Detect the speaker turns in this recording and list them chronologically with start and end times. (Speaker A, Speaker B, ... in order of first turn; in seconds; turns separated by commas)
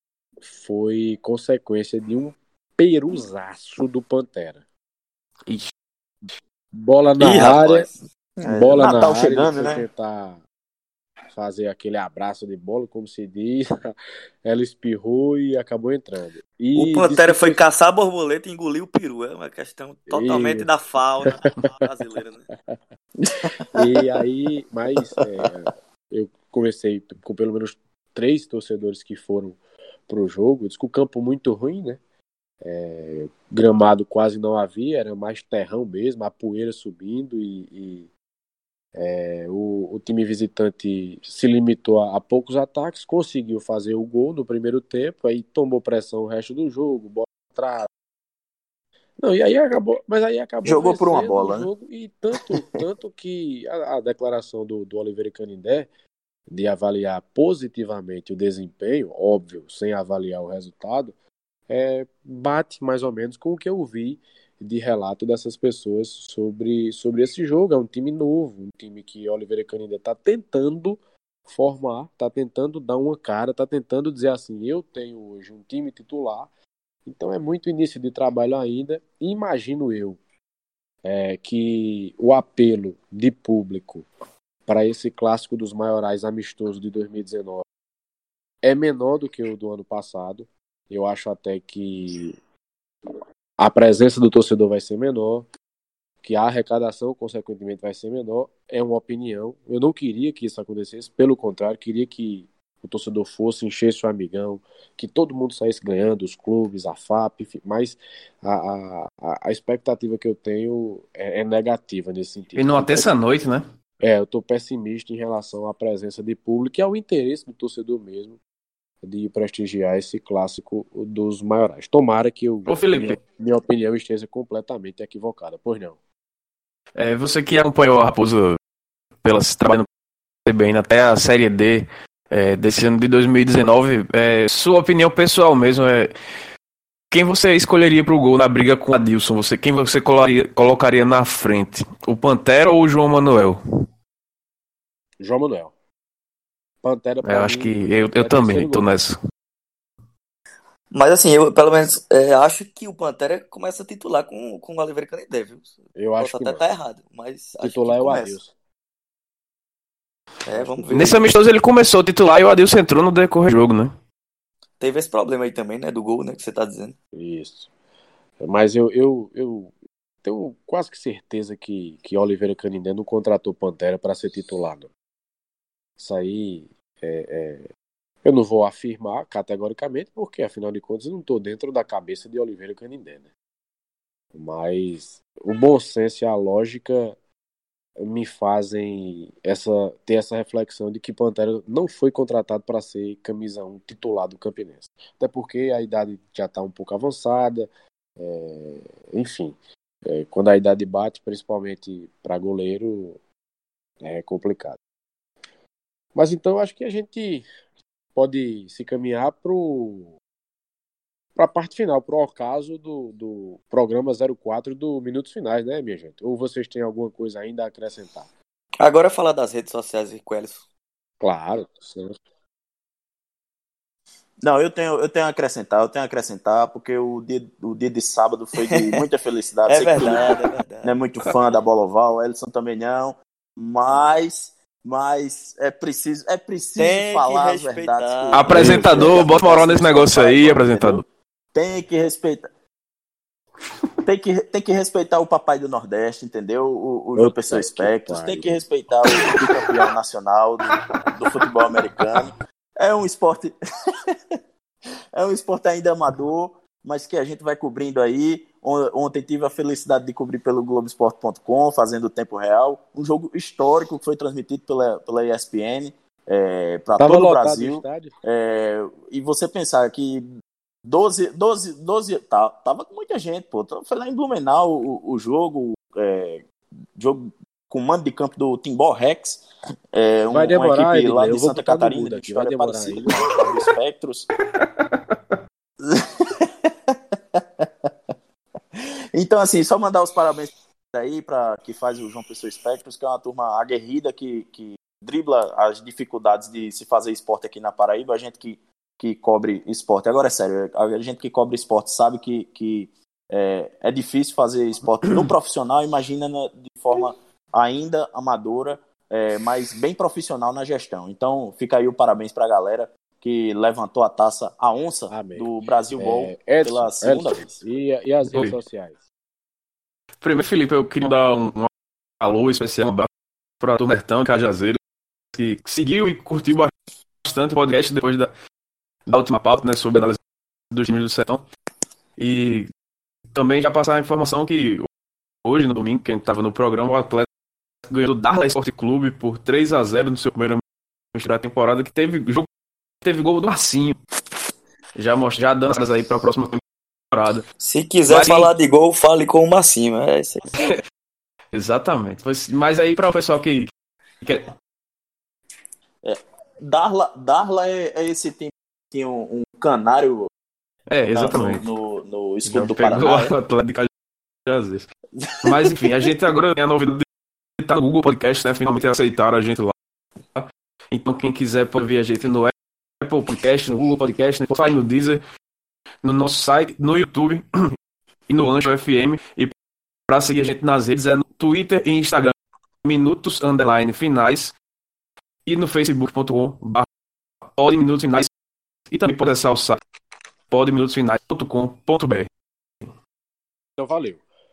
Speaker A: 0.4-4.6, Speaker A: 6.7-7.9, Speaker B: 7.2-8.0, Speaker C: 8.4-9.8, Speaker A: 8.4-10.4, Speaker A: 11.3-13.9, Speaker A: 14.4-17.6, Speaker B: 16.8-22.5, Speaker A: 20.1-20.7, Speaker C: 23.2-23.9, Speaker A: 23.7-32.0, Speaker A: 32.6-38.1, Speaker A: 38.9-47.9, Speaker A: 49.2-55.9, Speaker C: 50.6-51.7, Speaker A: 56.5-61.1, Speaker A: 61.7-76.5, Speaker A: 77.0-80.2, Speaker A: 81.0-84.1, Speaker A: 84.7-87.6, Speaker A: 88.6-92.3, Speaker A: 93.6-95.5, Speaker A: 96.2-113.1, Speaker D: 112.5-113.6, Speaker A: 114.0-118.4, Speaker A: 119.0-126.0, Speaker D: 122.7-123.2, Speaker D: 127.0-128.6, Speaker D: 129.2-129.8, Speaker D: 130.4-136.1, Speaker D: 137.1-143.6, Speaker A: 145.2-145.7, Speaker A: 146.8-148.8, Speaker D: 147.2-149.2, Speaker B: 150.9-158.4, Speaker A: 155.9-156.6, Speaker A: 157.6-158.5, Speaker B: 160.4-161.3, Speaker A: 160.5-160.8, Speaker D: 160.9-163.9, Speaker B: 164.8-166.9, Speaker A: 167.1-167.7, Speaker A: 168.4-169.7, Speaker A: 170.2-174.9, Speaker A: 176.0-177.7, Speaker A: 178.2-183.3, Speaker A: 184.3-187.2, Speaker A: 188.0-203.2, Speaker A: 204.0-204.8, Speaker A: 206.1-207.5, Speaker A: 208.1-210.1, Speaker A: 211.3-218.3, Speaker B: 218.8-220.7, Speaker A: 221.2-222.2, Speaker C: 224.4-242.5, Speaker B: 228.6-229.0, Speaker B: 229.7-230.9, Speaker B: 236.8-238.6, Speaker D: 238.3-241.0, Speaker A: 238.5-239.1, Speaker C: 244.0-253.5, Speaker A: 247.2-249.4, Speaker C: 255.1-270.3, Speaker A: 267.0-268.1, Speaker C: 270.9-284.3, Speaker A: 280.3-283.5, Speaker D: 284.5-284.9, Speaker C: 285.8-287.9, Speaker C: 288.7-317.6, Speaker A: 315.1-319.0, Speaker D: 320.2-323.1, Speaker D: 323.6-324.8, Speaker D: 325.3-326.7, Speaker D: 327.2-328.3, Speaker D: 329.1-330.2, Speaker D: 330.7-331.4, Speaker D: 332.2-332.7, Speaker D: 333.3-334.9, Speaker D: 335.4-337.3, Speaker D: 337.9-340.6, Speaker D: 341.1-342.5, Speaker D: 343.0-344.0, Speaker D: 344.9-347.4, Speaker B: 347.6-350.7, Speaker D: 348.1-348.5, Speaker D: 351.5-353.7, Speaker D: 354.2-354.5, Speaker C: 356.0-360.3, Speaker D: 360.9-361.6, Speaker C: 361.1-363.3, Speaker D: 362.5-363.9, Speaker D: 364.4-364.9, Speaker C: 365.2-365.5, Speaker D: 365.4-367.1, Speaker D: 367.6-369.7, Speaker D: 370.3-375.2, Speaker D: 376.0-377.7, Speaker D: 378.3-379.5, Speaker D: 380.1-384.5, Speaker D: 385.4-386.9, Speaker D: 387.5-388.3, Speaker D: 388.9-389.8, Speaker D: 390.5-392.3, Speaker A: 393.8-394.2